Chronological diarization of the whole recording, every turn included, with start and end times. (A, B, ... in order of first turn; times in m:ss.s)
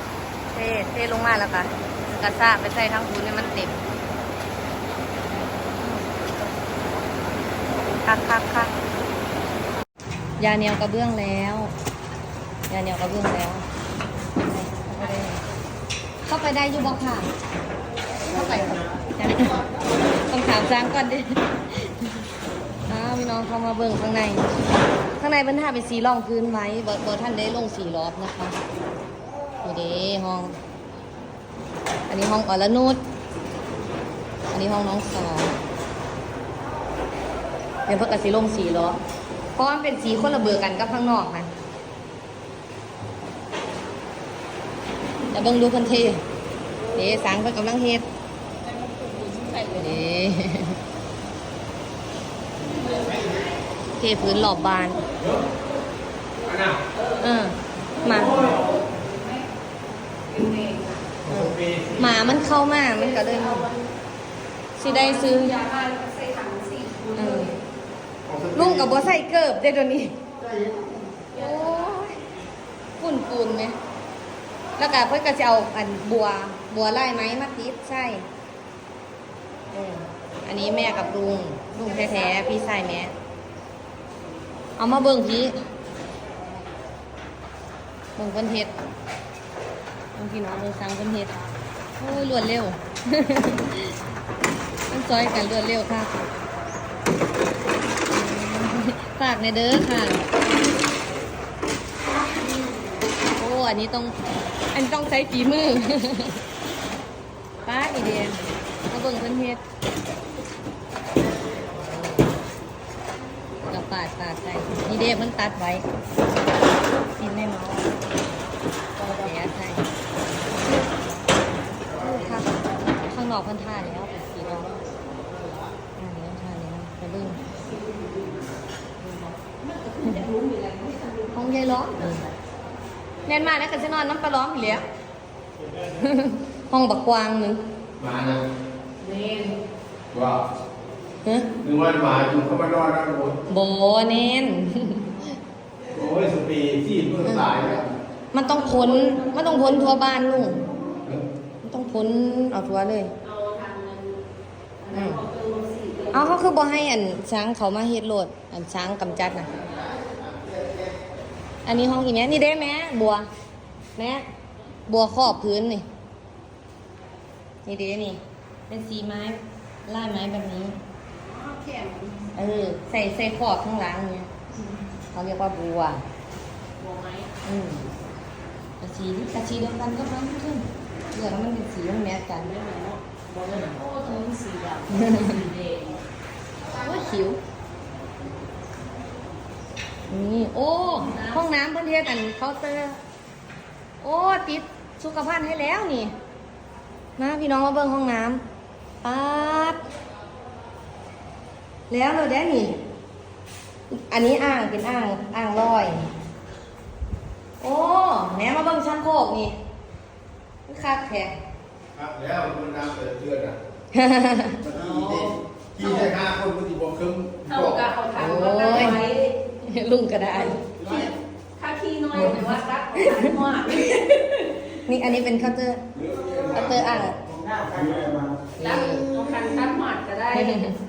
0:00.5-0:03.8 A
0:08.0-0:08.7 A
0:10.4-0:11.7 A
0:12.7-0:13.6 A
0:14.4-0:15.4 A
0:16.2-0:17.3 A
0:18.3-0:19.6 A
0:20.3-0:22.1 A
0:22.9-0:24.5 A
0:25.2-0:28.6 A
0:29.6-0:30.6 A
0:32.1-0:33.0 A
0:34.5-0:35.5 A
0:37.9-0:39.0 A
0:39.6-0:41.5 A
0:45.3-0:46.2 A
0:46.9-0:48.0 A
0:48.6-0:50.1 B
0:49.8-0:50.8 A
0:52.7-0:53.6 B
0:53.9-0:55.0 A
0:54.8-0:55.7 B
0:56.4-0:57.3 B
0:56.5-0:56.8 C
0:57.2-0:58.6 A
0:57.9-0:59.5 B
1:00.3-1:01.1 B
1:01.3-1:03.7 A
1:01.4-1:02.0 C
1:02.8-1:03.9 B
1:04.8-1:05.6 A
1:04.8-1:07.6 B
1:07.2-1:07.5 A
1:08.3-1:09.0 C
1:08.5-1:10.2 A
1:10.4-1:12.0 B
1:11.3-1:12.2 A
1:13.0-1:13.7 A
1:14.8-1:18.2 A
1:19.7-1:23.1 A
1:24.8-1:25.6 A
1:28.2-1:28.7 A
1:30.2-1:31.3 A
1:32.0-1:34.0 A
1:34.9-1:36.1 A
1:38.1-1:40.3 A
1:42.4-1:42.7 B
1:43.4-1:44.2 A
1:44.7-1:46.4 A
1:47.6-1:49.6 A
1:51.8-1:52.3 A
1:53.7-1:55.8 A
1:57.1-1:57.9 A
1:59.2-1:59.9 A
2:01.9-2:02.1 C
2:02.0-2:04.7 A
2:06.0-2:07.4 A
2:07.5-2:08.4 B
2:09.0-2:12.3 B
2:11.3-2:12.2 A
2:13.3-2:14.8 A
2:16.0-2:17.6 A
2:18.0-2:18.4 C
2:19.0-2:19.6 B
2:20.1-2:20.5 C
2:21.6-2:23.4 C
2:23.5-2:25.1 A
2:25.9-2:27.8 C
2:27.2-2:27.5 A
2:28.3-2:30.6 A
2:28.8-2:29.6 B
2:31.6-2:33.1 A
2:33.2-2:34.2 B
2:34.8-2:36.4 B
2:34.9-2:35.2 A
2:36.1-2:39.6 A
2:39.5-2:41.0 C
2:39.6-2:39.9 B
2:41.6-2:43.3 A
2:44.0-2:44.3 A
2:44.9-2:45.8 A
2:47.7-2:50.8 A
2:51.2-2:52.3 B
2:52.3-2:54.3 A
2:55.1-2:56.0 A
2:56.8-2:57.3 B
2:57.4-2:57.8 A
2:58.8-3:02.5 A
3:02.4-3:06.0 B
3:04.9-3:05.3 A
3:06.7-3:07.4 B
3:10.1-3:13.0 A
3:11.0-3:11.4 B
3:14.0-3:16.1 A
3:17.2-3:18.4 A
3:19.0-3:19.8 A
3:21.9-3:22.7 A
3:23.9-3:26.0 A
3:27.6-3:29.6 A
3:30.7-3:31.4 A
3:31.9-3:33.6 C
3:33.9-3:34.6 A
3:34.6-3:37.9 C
3:34.7-3:36.2 B
3:37.4-3:39.4 B
3:38.2-3:39.0 A
3:39.6-3:40.6 A
3:40.3-3:44.8 B
3:40.7-3:41.1 C
3:42.1-3:42.4 A
3:44.8-3:45.8 A
3:45.9-3:48.3 C
3:46.5-3:47.2 A
3:48.5-3:49.2 A
3:48.6-3:50.8 B
3:50.3-3:50.8 A